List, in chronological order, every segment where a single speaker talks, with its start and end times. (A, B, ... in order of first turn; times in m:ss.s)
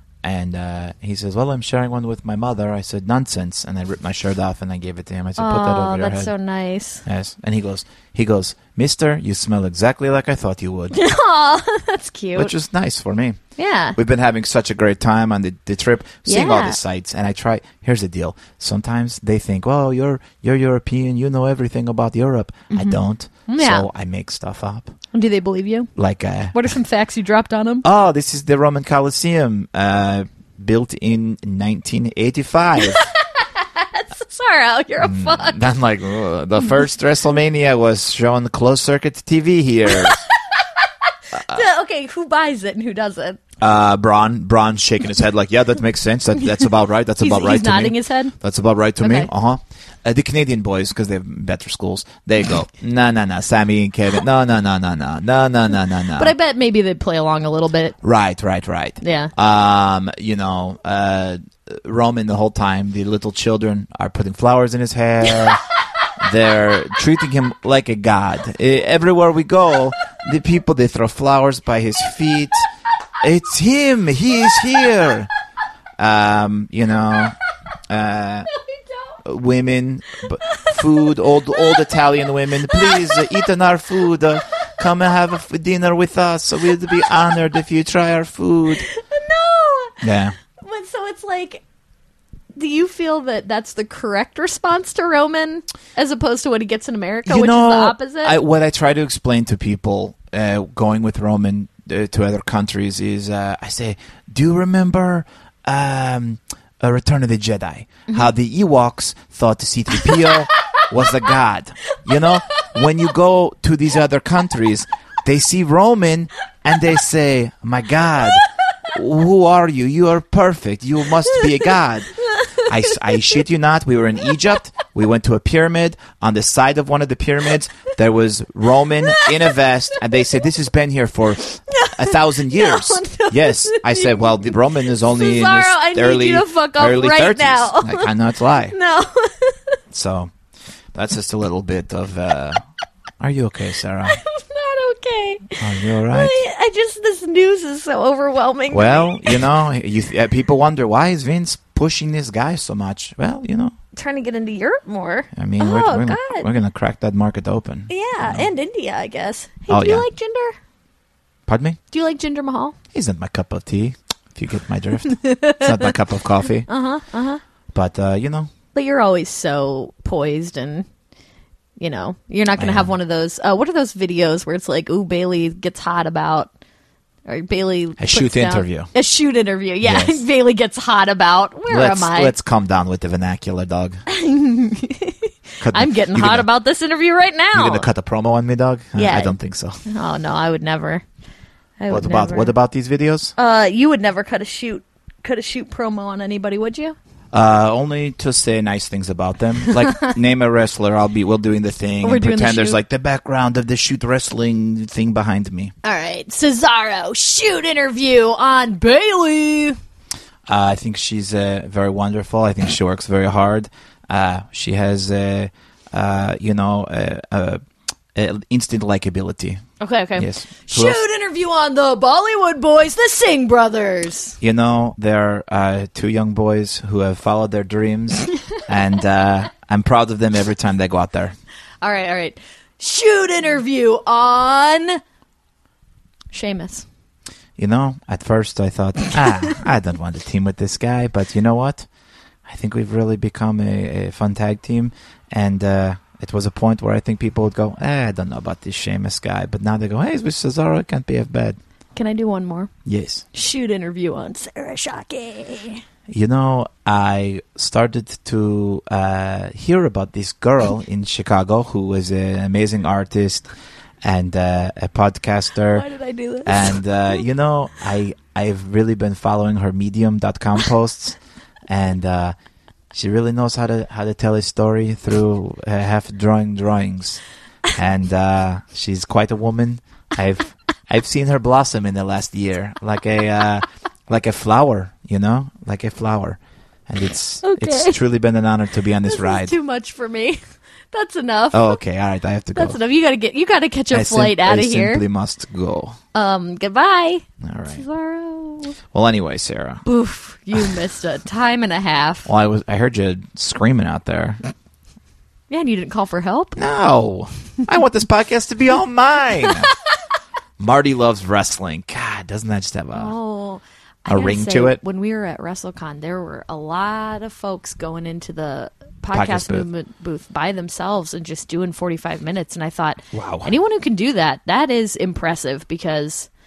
0:00.2-0:06.3 A
0:05.4-0:07.0 B
0:07.0-0:11.0 A
0:10.9-0:12.5 B
0:12.4-0:13.4 A
0:13.6-0:14.0 B
0:14.0-0:24.9 A
0:16.3-0:16.8 B
0:22.7-0:23.9 B
0:25.1-0:25.9 B
0:26.0-0:26.8 A
0:26.5-0:27.8 B
0:27.8-0:33.0 A
0:32.8-0:35.7 B
0:35.0-0:40.2 A
0:39.9-0:43.4 B
0:41.3-0:41.6 A
0:43.6-0:56.3 A
0:47.2-0:48.3 B
0:49.0-0:49.3 B
0:56.2-0:58.0 B
0:58.0-1:05.6 A
0:59.0-0:59.3 B
1:06.2-1:12.6 A
1:13.2-1:15.3 A
1:16.0-1:17.4 A
1:17.9-1:18.5 A
1:18.5-1:19.2 B
1:19.2-1:28.9 A
1:20.4-1:21.8 B
1:22.6-1:23.5 B
1:28.7-1:31.6 B
1:30.0-1:30.3 A
1:32.5-1:38.4 B
1:37.2-2:18.7 A
2:01.2-2:03.0 B
2:09.0-2:10.0 B
2:11.5-2:18.1 B
2:18.7-2:19.7 B
2:19.9-2:20.3 A
2:20.9-2:22.6 A
2:23.2-2:24.2 A
2:24.0-2:29.4 B
2:25.6-2:26.4 A
2:28.7-2:33.7 A
2:34.0-2:36.5 B
2:35.3-2:38.5 A
2:37.9-2:40.6 B
2:39.7-2:40.0 A
2:41.5-2:41.8 A
2:41.9-2:42.8 B
2:42.9-2:46.7 A
2:45.1-2:45.8 B
2:46.7-2:47.4 B
2:47.7-2:48.5 A
2:48.7-2:50.8 B
2:51.8-2:56.5 B
2:52.6-2:52.9 A
2:57.2-3:02.3 B
2:58.0-2:58.9 A
2:59.8-3:00.2 A
3:01.7-3:04.0 A
3:04.1-3:07.9 B
3:05.6-3:06.5 A
3:07.5-3:09.8 A
3:09.0-3:09.3 B
3:09.8-3:11.0 B
3:11.8-3:12.5 B
3:11.9-3:13.3 A
3:13.4-3:17.0 B
3:17.3-3:25.7 A
3:19.8-3:20.1 B
3:22.0-3:22.8 B
3:25.8-3:29.8 B
3:30.5-3:37.6 A
3:38.1-3:39.6 A
3:39.8-3:44.4 B
3:40.2-3:41.0 A
3:44.4-3:51.3 A
3:51.8-3:55.0 B
3:56.3-3:56.8 B
3:57.6-4:01.9 A
4:02.4-4:11.6 A
4:11.9-4:12.7 B
4:12.8-4:13.2 A
4:13.3-4:15.8 B
4:16.1-4:23.5 A
4:24.0-4:25.9 A
4:25.7-4:26.8 B
4:26.4-4:31.2 A
4:31.7-4:32.3 A
4:32.9-4:37.2 A
4:37.7-4:49.5 A
4:47.4-4:48.0 B
4:49.0-4:50.4 B
4:50.9-4:51.8 B
4:51.5-4:52.8 A
4:52.5-4:55.0 B
4:53.9-4:56.0 A
4:56.1-4:58.8 B
4:57.4-4:57.8 A
4:58.9-4:59.8 A
4:59.8-5:02.3 B
5:02.2-5:04.4 A
5:05.5-5:06.6 B
5:06.6-5:09.7 A
5:10.6-5:13.1 A
5:12.9-5:26.3 B
5:14.1-5:14.8 A
5:19.1-5:19.6 A
5:23.1-5:23.5 A